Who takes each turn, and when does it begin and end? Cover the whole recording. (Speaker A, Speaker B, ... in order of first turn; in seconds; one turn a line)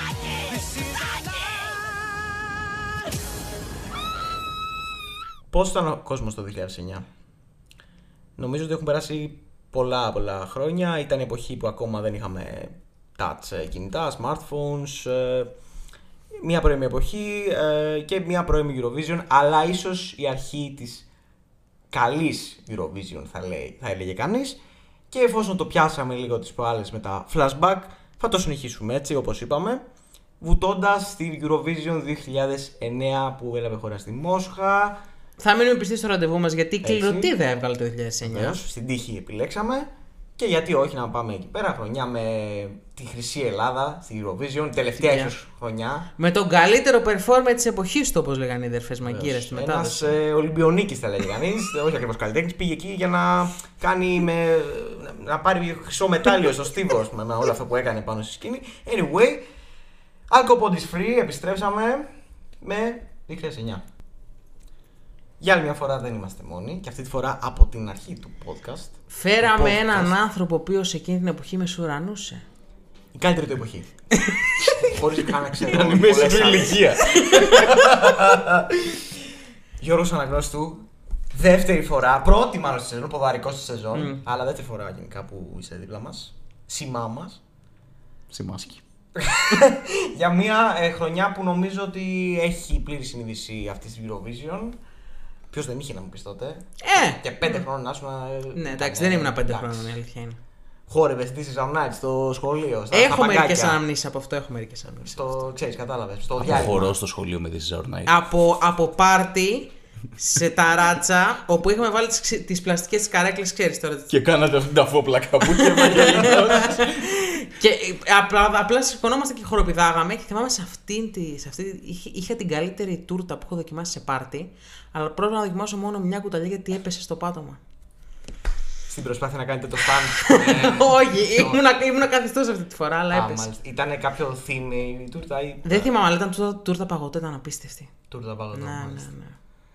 Speaker A: 5.5-7.0
Speaker A: 8.4-15.5
Speaker A: 16.3-21.1
Speaker A: 21.9-24.6
Speaker A: 25.1-29.8
Speaker A: 30.4-35.0
Speaker B: 35.4-38.6
Speaker A: 36.8-37.3
Speaker A: 38.2-46.1
Speaker B: 45.0-45.3
Speaker B: 46.2-50.2
Speaker A: 49.1-59.4
Speaker A: 60.3-62.1
Speaker A: 62.6-63.8
Speaker A: 65.4-70.2
Speaker B: 69.1-72.4
Speaker A: 73.1-73.9
Speaker A: 74.6-79.1
Speaker C: 75.6-77.8
Speaker B: 77.2-77.8
Speaker A: 79.8-87.4
Speaker B: 83.9-84.2
Speaker C: 88.3-88.8
Speaker A: 89.2-94.8
Speaker A: 95.5-100.0
Speaker B: 96.8-97.6
Speaker B: 98.5-100.4
Speaker A: 100.9-103.8
Speaker B: 102.9-105.2
Speaker A: 105.0-106.9
Speaker C: 106.4-108.1
Speaker B: 108.0-114.1
Speaker C: 114.1-117.0
Speaker B: 115.5-127.6
Speaker A: 128.9-131.6
Speaker B: 130.1-133.5
Speaker A: 133.1-135.9
Speaker B: 135.6-137.9
Speaker A: 138.1-139.1
Speaker B: 138.5-139.3